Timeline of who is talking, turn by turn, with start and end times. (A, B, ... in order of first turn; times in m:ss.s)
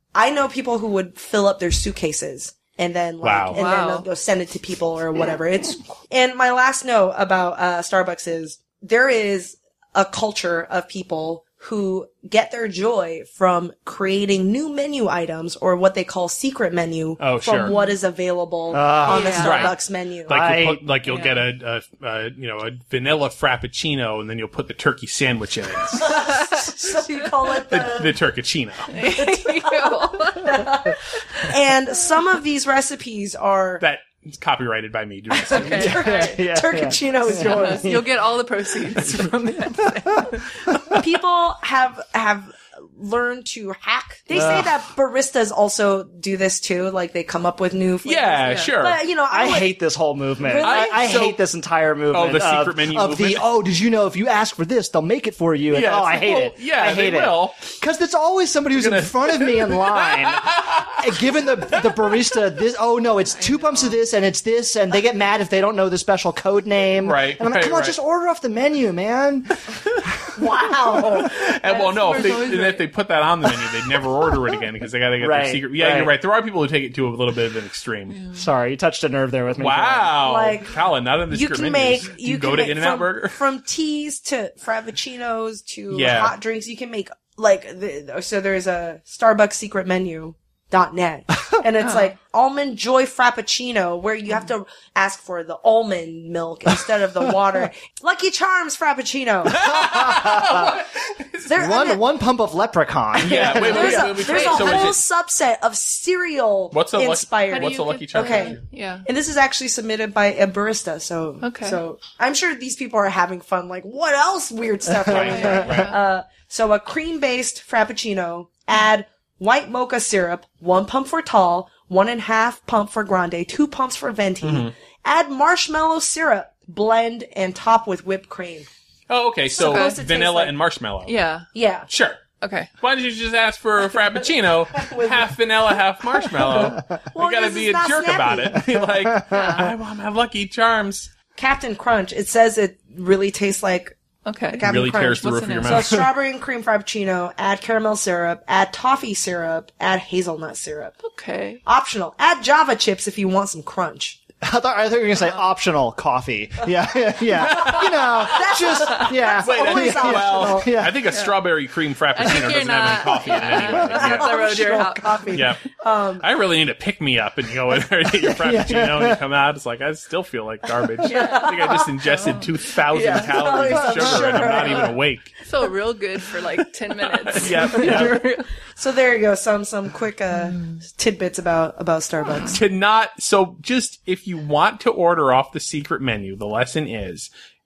0:00.1-0:20.4 A
0:03.2-0:03.6 B
0:03.5-0:04.1 C
0:17.2-0:17.7 B
0:17.6-0:18.0 C
0:18.7-0:19.5 D
0:19.1-0:19.7 C
0:19.4-0:26.3 B
0:20.3-0:20.9 D
0:21.1-0:21.4 C
0:26.0-0:28.2 A
0:26.0-0:26.7 C
0:27.7-0:28.9 B
0:28.9-0:30.6 C
0:29.0-0:33.8 A
0:33.8-0:36.0 B
0:35.3-0:38.0 A
0:35.5-0:36.2 C
0:35.7-0:38.1 D
0:37.4-0:40.6 C
0:41.0-0:49.8 A
0:44.3-0:44.7 D
0:48.0-0:49.0 B
0:48.5-0:48.7 C
0:49.3-1:10.1 D
0:50.4-0:51.2 A
0:50.6-0:51.4 B
0:52.1-0:53.5 B
0:55.7-0:57.8 B
0:58.7-1:02.2 B
1:03.3-1:04.0 C
1:07.0-1:08.0 B
1:10.4-1:12.2 A
1:11.4-1:18.2 B
1:11.7-1:12.8 C
1:15.2-1:16.1 D
1:18.1-1:18.4 C
1:18.3-1:20.2 D
1:19.6-1:23.4 B
1:20.2-1:40.0 A
1:25.9-1:26.4 B
1:39.6-1:41.5 B
1:39.6-1:40.8 D
1:41.5-1:42.0 A
1:41.5-1:44.0 D
1:43.2-1:45.0 B
1:43.2-2:08.7 A
1:43.7-1:44.9 C
1:46.7-1:48.6 B
1:47.5-1:49.0 C
1:51.4-1:51.8 C
1:55.1-1:55.9 B
1:55.1-1:55.4 D
1:55.2-1:56.0 C
2:04.4-2:04.7 B
2:09.1-2:11.1 B
2:09.5-2:10.6 A
2:09.6-2:10.0 C
2:11.1-2:11.5 C
2:11.5-2:11.9 A
2:11.9-2:12.2 B
2:12.4-2:12.7 C
2:12.8-2:21.1 B
2:14.8-2:15.2 A
2:17.1-2:18.6 A
2:19.2-2:19.7 D
2:19.3-2:19.7 C
2:21.4-2:24.0 A
2:24.2-2:25.7 C
2:24.5-2:31.0 A
2:24.6-2:26.0 B
2:31.0-2:31.6 C
2:31.6-2:34.2 A
2:34.4-2:41.0 D
2:37.5-2:37.8 B
2:37.5-2:40.7 A
2:39.4-2:44.4 B
2:42.1-2:45.3 C
2:43.6-2:46.2 A
2:45.3-2:55.3 B
2:48.3-2:49.2 D
2:51.0-2:51.9 A
2:51.1-2:53.3 C
2:53.0-2:55.0 A
2:53.9-2:54.7 D
2:55.5-2:58.5 C
2:57.1-2:58.2 B
2:58.8-3:02.6 A
3:02.3-3:02.6 C
3:02.5-3:07.3 B